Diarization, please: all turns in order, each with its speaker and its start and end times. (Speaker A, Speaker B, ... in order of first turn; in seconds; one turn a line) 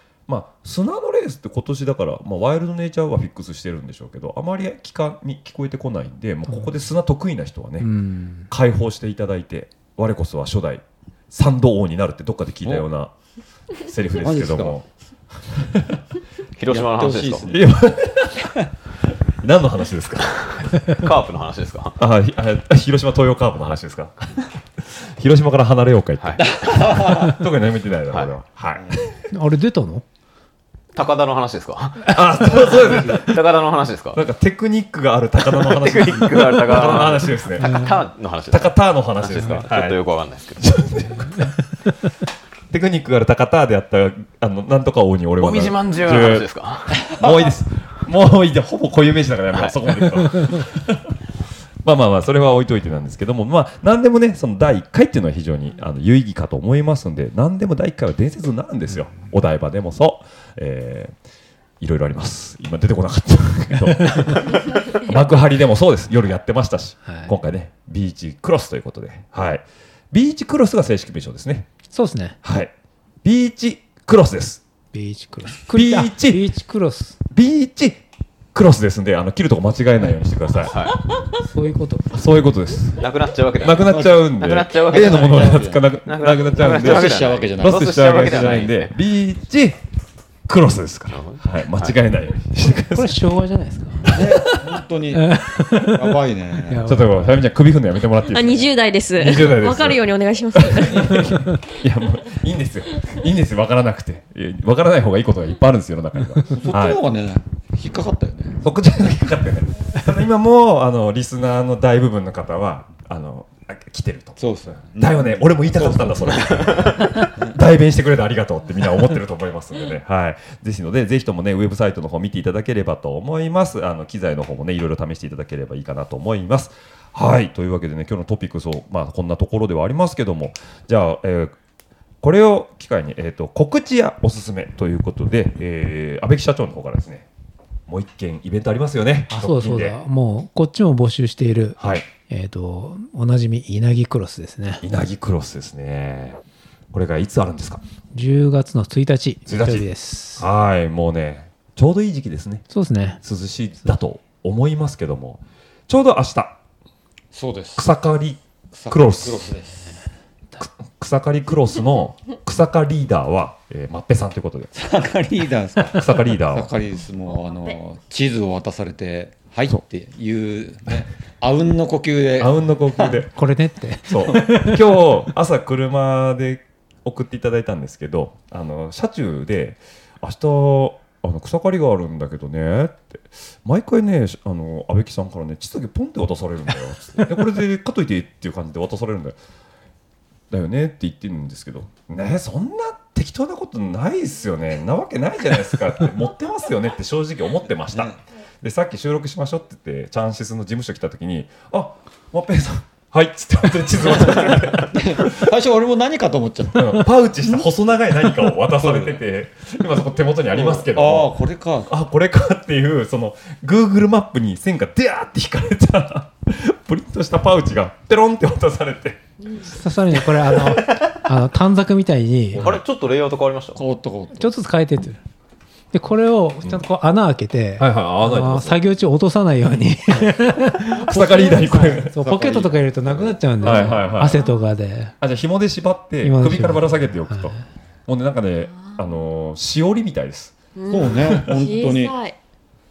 Speaker A: 0.3-7.9
Speaker B: 6.5-6.8
Speaker B: 7.8-8.5
Speaker A: 8.5-13.1
Speaker A: 13.8-14.9
Speaker C: 14.2-14.8
Speaker A: 15.4-16.0
Speaker D: 16.6-17.5
Speaker C: 16.7-17.7
Speaker A: 17.5-18.5
Speaker A: 19.4-20.7
Speaker D: 20.4-22.0
Speaker A: 22.0-29.2
Speaker D: 26.2-26.5
Speaker C: 26.4-27.3
Speaker B: 29.3-30.0
Speaker D: 31.0-34.2
Speaker A: 32.1-33.4
Speaker A: 34.1-37.9
Speaker D: 35.5-40.6
Speaker B: 37.6-38.0
Speaker A: 38.5-40.0
Speaker A: 40.6-41.5
Speaker A: 42.7-46.5
Speaker D: 45.4-47.1
Speaker C: 47.1-47.5
Speaker A: 47.1-51.1
Speaker D: 49.5-49.9
Speaker A: 51.8-61.1
Speaker A: 61.8-71.7
Speaker B: 67.0-67.3
Speaker B: 71.9-72.4
Speaker A: 72.4-72.7
Speaker A: 73.2-74.6
Speaker B: 74.9-77.2
Speaker A: 75.7-76.5
Speaker A: 77.3-78.0
Speaker A: 78.5-80.8
Speaker D: 80.7-81.0
Speaker B: 81.3-82.2
Speaker A: 82.1-83.1
Speaker D: 83.0-88.9
Speaker A: 83.6-89.8
Speaker C: 83.6-88.7
Speaker A: 90.5-93.3
Speaker D: 91.1-92.0
Speaker B: 92.9-94.3
Speaker C: 94.1-97.1
Speaker B: 95.1-96.2
Speaker B: 96.7-97.4
Speaker A: 96.9-100.0
Speaker E: 98.2-101.2
Speaker A: 100.5-107.0
Speaker B: 101.1-101.5
Speaker C: 106.5-108.6
Speaker A: 108.6-131.6
Speaker C: 114.4-117.6
Speaker A: 132.2-137.3
Speaker A: 137.9-140.0
Speaker B: 139.3-144.8
Speaker A: 141.8-142.1
Speaker A: 144.8-146.4
Speaker A: 146.9-147.8
Speaker B: 148.1-150.5
Speaker A: 149.5-152.7
Speaker B: 152.7-153.2
Speaker A: 153.2-156.6
Speaker C: 157.3-157.9
Speaker A: 157.8-159.5
Speaker C: 158.7-160.0
Speaker A: 160.6-164.7
Speaker C: 164.7-173.2
Speaker A: 165.9-166.7
Speaker A: 172.4-173.3
Speaker B: 173.4-174.8
Speaker A: 174.1-189.4
Speaker A: 190.5-205.5
Speaker C: 197.9-198.2
Speaker C: 204.5-207.1
Speaker A: 206.8-211.3
Speaker C: 208.8-209.2
Speaker C: 210.5-211.9
Speaker A: 211.9-219.2
Speaker B: 219.7-222.7
Speaker C: 222.5-222.8
Speaker D: 222.6-223.8
Speaker C: 223.8-224.5
Speaker B: 224.4-225.2
Speaker B: 225.9-235.2
Speaker A: 227.8-228.8
Speaker A: 231.1-232.1
Speaker C: 231.6-234.1
Speaker A: 233.6-234.4
Speaker A: 235.2-240.6
Speaker B: 236.2-237.6
Speaker E: 240.8-242.4
Speaker C: 240.9-242.2
Speaker A: 241.1-241.6